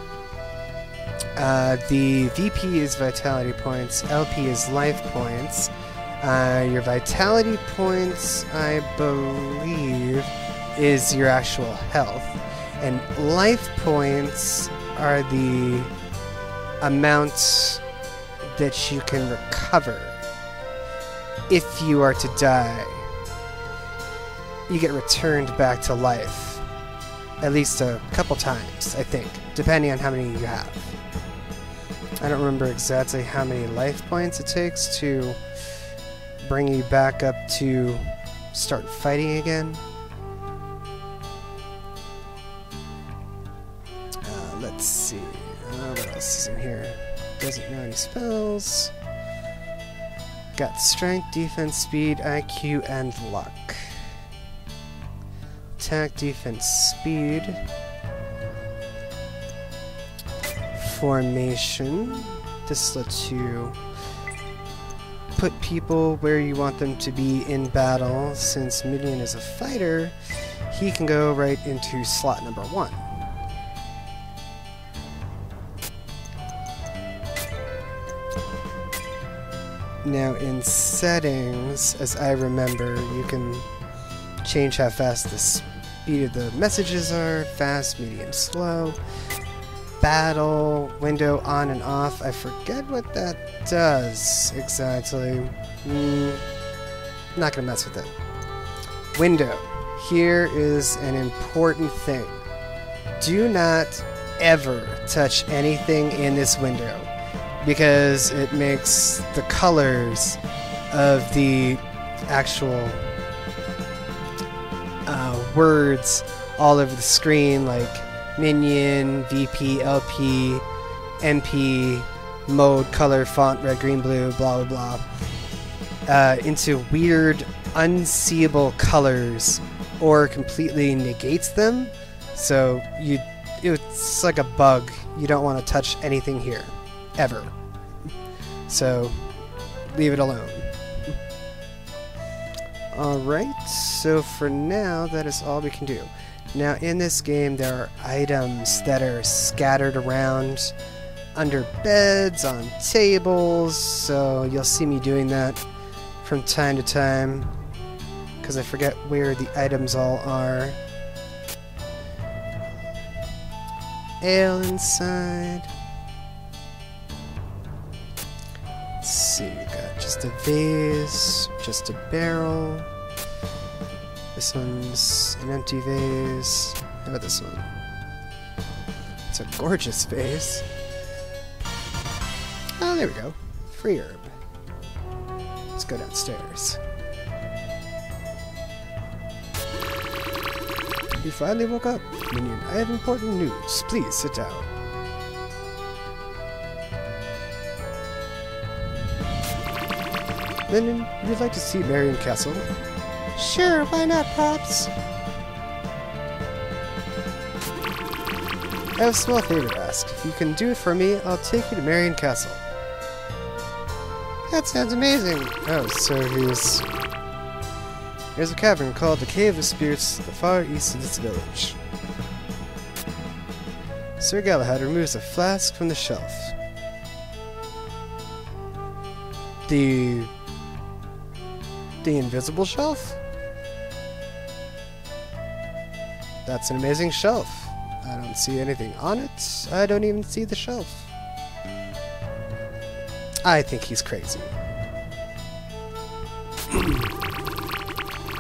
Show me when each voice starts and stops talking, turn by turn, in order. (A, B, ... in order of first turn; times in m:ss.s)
0:01.4-0:15.9 A
0:16.8-0:17.8 A
0:18.4-0:20.2 A
0:21.5-0:23.1 A
0:24.7-0:26.7 A
0:27.4-0:31.0 A
0:32.2-0:35.4 A
0:36.4-0:39.8 A
0:44.2-0:48.9 A
0:50.6-0:54.1 A
0:55.8-0:57.6 A
1:00.8-1:03.8 A
1:05.4-1:10.2 A
1:10.7-1:13.1 A
1:20.0-1:23.7 A
1:24.4-1:29.0 A
1:30.0-1:36.5 A
1:37.4-1:38.1 A
1:39.1-1:42.4 A
1:43.2-1:50.4 A
1:50.9-1:53.1 A
1:55.1-2:00.7 A
2:01.2-2:05.1 A
2:06.1-2:17.6 A
2:18.7-2:19.3 A
2:19.9-2:21.2 A
2:22.9-2:30.8 A
2:31.4-2:35.6 A
2:36.2-2:37.6 A
2:38.4-2:40.8 A
2:44.2-2:45.7 A
2:49.0-2:52.9 A
2:54.4-2:57.8 A
2:59.3-3:00.7 A
3:02.8-3:04.4 A
3:05.7-3:06.8 A
3:11.2-3:14.7 A
3:20.7-3:22.7 A
3:23.4-3:24.9 A
3:29.0-3:32.6 A
3:34.5-3:36.8 A
3:38.4-3:41.8 A
3:44.2-3:46.6 A
3:49.7-3:50.3 A
3:52.0-3:53.2 A
3:56.4-4:01.1 A
4:03.4-4:04.6 A
4:06.7-4:07.1 A